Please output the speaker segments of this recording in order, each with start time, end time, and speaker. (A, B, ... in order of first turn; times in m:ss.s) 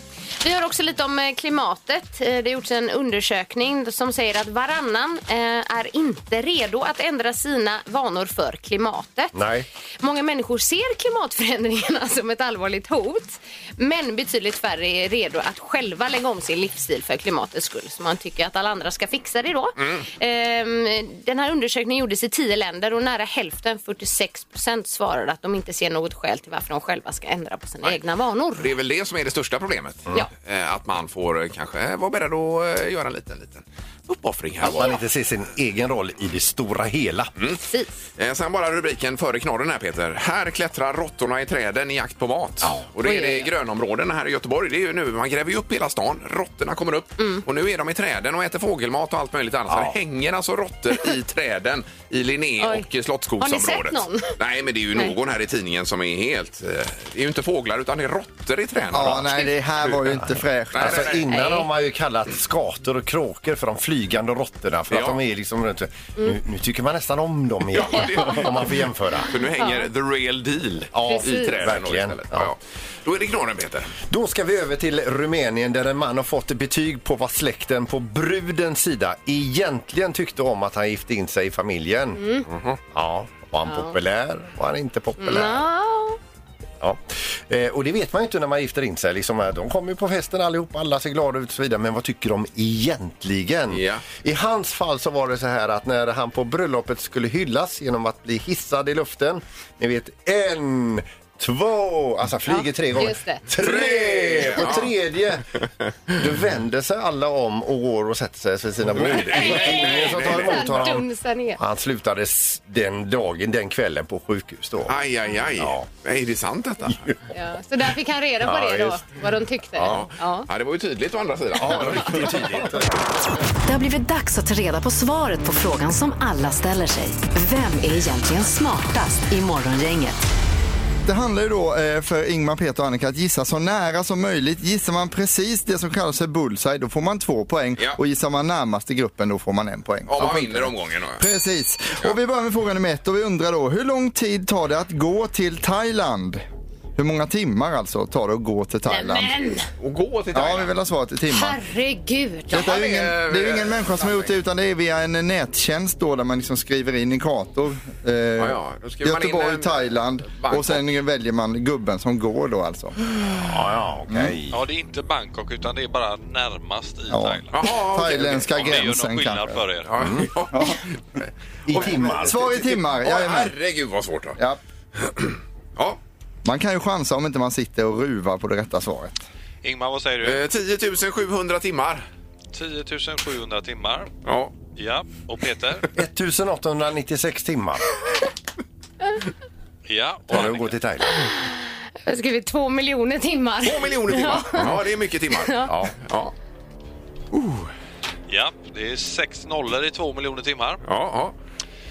0:00.4-0:09.3 A
0:09.3-0:09.6 B
0:10.0-0:28.7 A
0:19.8-0:20.0 C
0:28.6-0:35.0 C
0:34.6-0:37.3 B
0:37.6-0:37.9 A
0:38.2-0:59.3 C
0:43.0-0:43.5 A
0:49.7-0:49.9 B
0:52.6-0:52.9 A
0:53.4-0:54.4 A
0:58.9-1:01.1 D
1:00.7-1:01.3 C
1:00.8-1:09.3 B
1:01.3-1:01.7 A
1:04.9-1:05.2 C
1:07.7-1:13.9 C
1:09.6-1:09.9 A
1:10.9-1:12.5 B
1:11.1-1:11.6 A
1:14.0-1:25.7 B
1:22.2-1:22.4 A
1:23.6-1:23.9 A
1:25.2-1:26.2 A
1:26.8-1:45.4 B
1:33.7-1:34.0 C
1:42.5-1:43.4 A
1:43.6-1:44.9 C
1:46.2-1:54.9 B
1:48.9-1:50.7 C
1:49.2-1:51.6 A
1:54.9-1:57.1 C
1:55.6-1:55.8 B
1:57.3-2:00.5 A
1:58.4-1:59.0 B
1:59.8-2:00.0 B
1:59.8-2:02.7 C
2:01.6-2:03.1 B
2:03.6-2:10.2 E
2:11.0-2:26.4 D
2:20.1-2:21.2 C
2:27.0-2:29.3 D
2:28.9-2:29.7 A
2:29.8-2:30.7 C
2:30.3-2:31.6 D
2:31.3-2:32.7 A
2:32.5-2:42.9 D
2:32.5-2:34.3 C
2:38.4-2:40.8 C
2:43.4-2:44.6 B
2:44.1-2:44.4 D
2:44.5-2:50.0 F
2:47.1-2:49.6 D
2:47.5-2:48.8 C
2:49.9-2:52.1 C
2:50.0-2:50.3 B
2:50.5-2:50.8 D
2:51.7-2:52.7 B
2:51.9-2:53.5 D
2:53.0-2:54.4 C
2:55.0-2:56.0 C
2:56.4-2:59.2 D
2:59.6-3:00.4 F
3:00.2-3:02.0 C
3:02.5-3:04.1 F
3:04.2-3:04.5 C
3:04.7-3:05.9 F
3:05.9-3:08.0 B
3:09.8-3:10.8 F
3:10.3-3:11.3 B
3:12.0-3:14.7 A
3:13.6-3:16.3 C
3:15.4-3:15.7 A
3:17.3-3:17.7 C
3:18.3-3:20.8 F
3:20.8-3:21.3 C